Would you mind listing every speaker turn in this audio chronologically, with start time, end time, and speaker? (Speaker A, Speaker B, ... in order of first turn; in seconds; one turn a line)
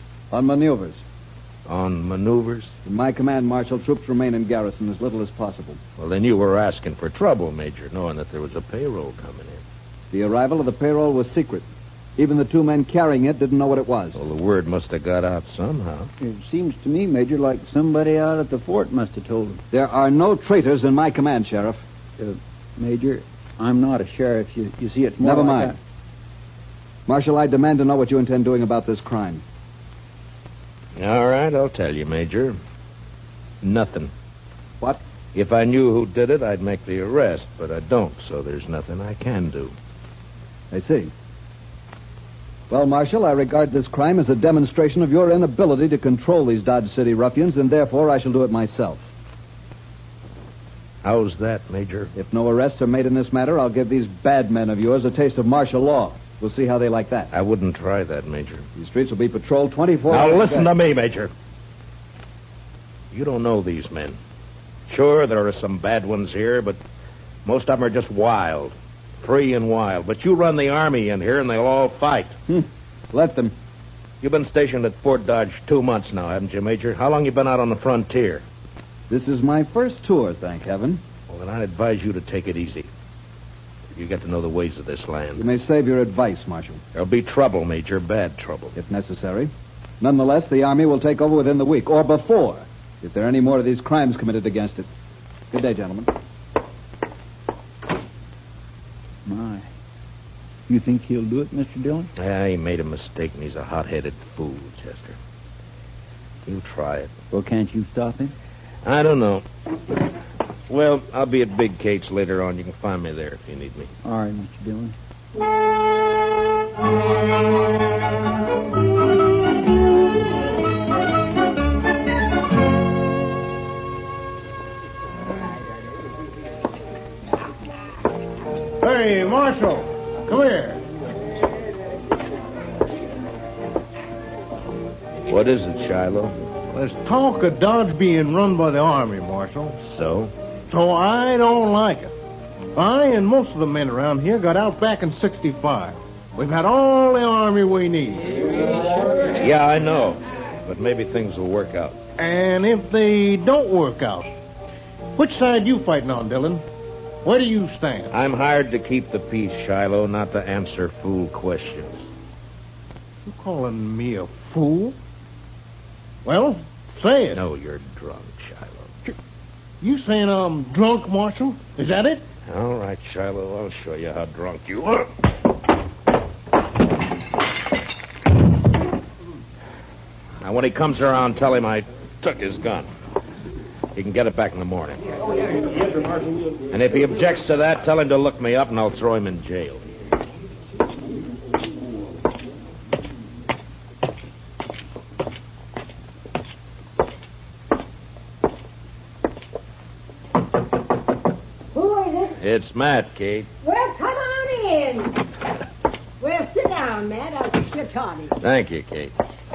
Speaker A: 0.3-1.0
Speaker B: 1.6-2.7
Speaker A: 2.9-5.8
Speaker B: 6.0-9.6
Speaker A: 10.1-11.6
Speaker A: 12.2-14.2
Speaker B: 14.1-16.1
Speaker C: 16.2-19.6
Speaker A: 19.7-21.8
Speaker C: 22.2-25.8
Speaker A: 25.2-25.7
Speaker A: 27.1-29.4
Speaker B: 31.0-32.6
Speaker B: 33.6-34.1
Speaker B: 35.3-39.7
Speaker A: 40.7-41.1
Speaker A: 42.7-49.0
Speaker B: 51.0-52.1
Speaker A: 52.1-57.3
Speaker B: 57.3-58.6
Speaker A: 58.8-60.7
Speaker B: 60.1-61.3
Speaker B: 63.1-64.2
Speaker B: 64.9-66.8
Speaker B: 67.4-72.3
Speaker A: 72.5-73.5
Speaker B: 74.2-78.4
Speaker A: 79.1-81.0
Speaker B: 81.3-82.9
Speaker B: 83.9-85.5
Speaker A: 85.4-86.8
Speaker B: 86.9-88.8
Speaker A: 88.8-94.9
Speaker A: 95.5-96.1
Speaker C: 99.2-99.7
Speaker C: 100.7-102.1
Speaker B: 102.2-105.2
Speaker B: 106.5-107.1
Speaker C: 107.3-108.3
Speaker B: 108.8-109.4
Speaker B: 110.7-113.9
Speaker C: 114.0-114.9
Speaker D: 128.8-130.8
Speaker B: 135.3-136.3
Speaker D: 136.7-139.8
Speaker B: 139.8-140.3
Speaker D: 140.7-142.1
Speaker D: 142.8-148.5
Speaker B: 149.2-152.0
Speaker D: 152.2-154.3
Speaker D: 155.2-156.6
Speaker D: 157.2-158.1
Speaker B: 158.1-162.0
Speaker D: 163.2-164.9
Speaker D: 166.2-167.4
Speaker B: 167.3-168.9
Speaker D: 169.8-172.2
Speaker B: 172.5-175.1
Speaker B: 180.4-182.9
Speaker B: 183.9-185.0
Speaker B: 186.7-189.8
Speaker E: 201.7-202.4
Speaker B: 202.4-203.5
Speaker E: 203.6-205.2
Speaker E: 206.2-208.3
Speaker B: 208.4-209.1